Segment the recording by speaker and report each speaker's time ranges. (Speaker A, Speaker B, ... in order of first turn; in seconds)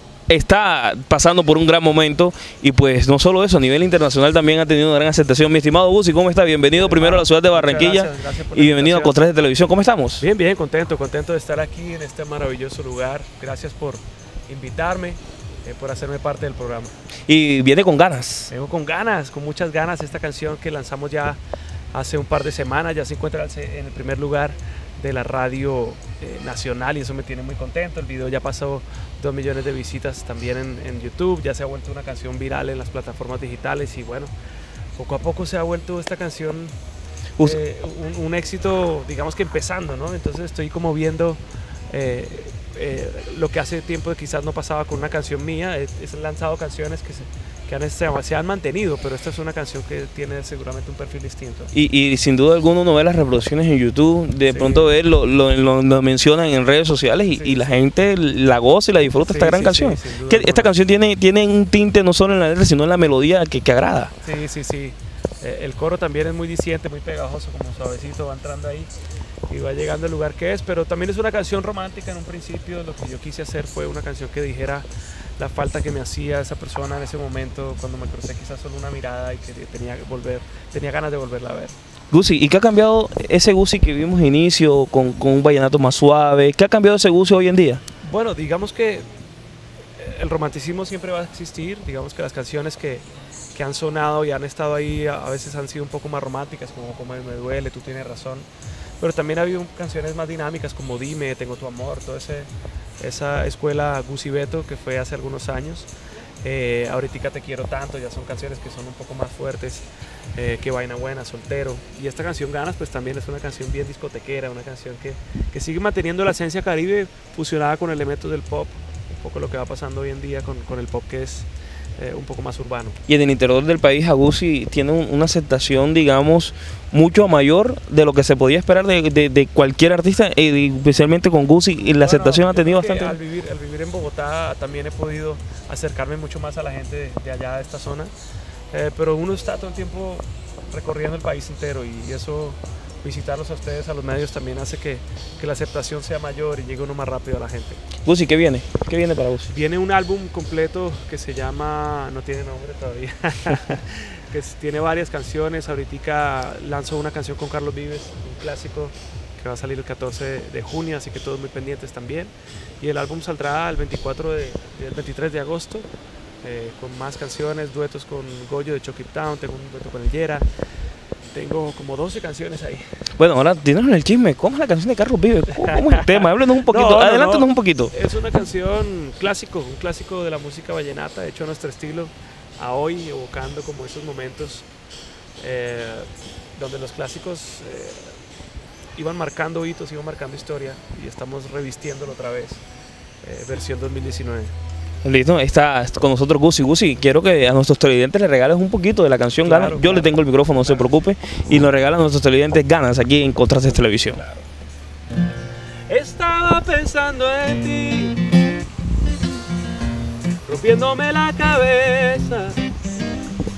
Speaker A: 0.3-10.2, 17.3-18.5, 51.7-64.1, 82.1-87.8, 123.1-133.2, 148.1-149.5, 173.2-177.9, 195.0-204.2
Speaker B: 6.7-9.2, 10.2-16.9, 18.5-21.4, 21.9-34.3, 35.0-36.8, 37.4-51.7, 54.5-55.0, 57.3-57.8, 59.2-60.7, 64.2-68.9, 69.5-74.9, 75.4-81.7, 88.0-89.1, 90.0-98.5, 99.0-102.5, 103.0-105.9, 106.4-123.0, 132.0-138.1, 138.7-147.8, 149.5-165.9, 166.4-170.4, 171.3-172.8, 175.5-184.7, 185.4-188.1, 189.0-192.6, 193.2-194.5, 199.4-200.9, 204.1-204.4, 205.9-208.3, 210.4-212.6